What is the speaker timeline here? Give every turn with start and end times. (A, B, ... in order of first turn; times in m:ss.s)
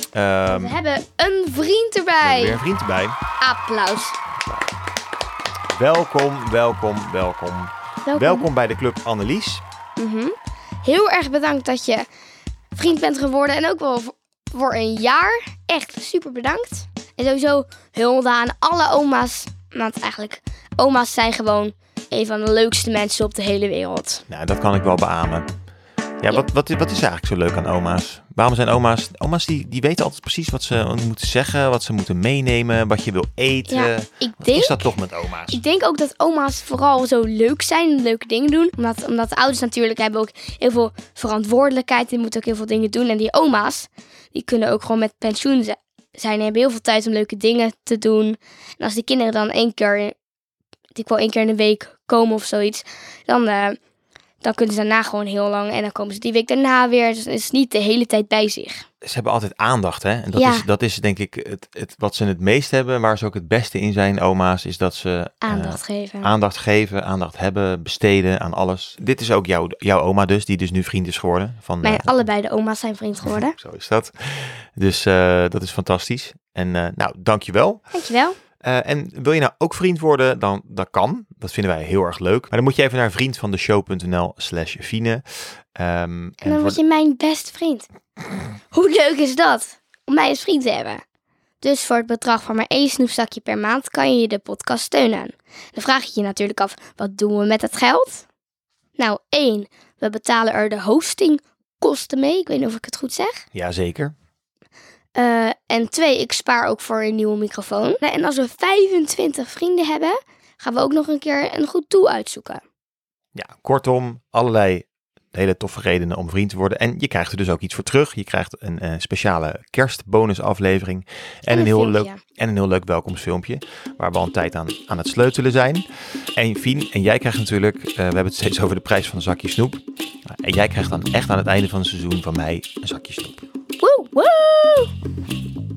0:00.1-0:00.8 A
0:00.5-0:02.6 B
0:02.2-0:03.2 A
0:03.4-0:04.2 B
0:05.7-0:09.6 A
0:08.0-0:08.5 B
0:10.0-0:12.0 B
0:12.7-0:24.2 B
0:24.3-0:25.5 A
0:26.2-0:35.6 A
0:33.7-0:34.9 B
0:35.5-0:50.1 B
0:50.9-0:53.8 B
0:54.4-0:58.8 B
0:59.0-1:12.2 A
1:00.3-1:00.6 B
1:05.4-1:06.3 B
1:11.8-1:13.5 B
1:13.5-1:17.8 A
1:17.9-1:18.4 B
1:18.6-1:26.8 A
1:26.4-1:27.9 B
1:28.7-1:31.0 B
1:31.6-1:38.2 B
1:39.0-1:43.4 B
1:43.5-1:44.1 A
1:45.1-1:52.6 B
1:53.3-2:05.8 A
2:01.5-2:02.2 B
2:06.4-2:13.4 A
2:13.8-2:14.9 B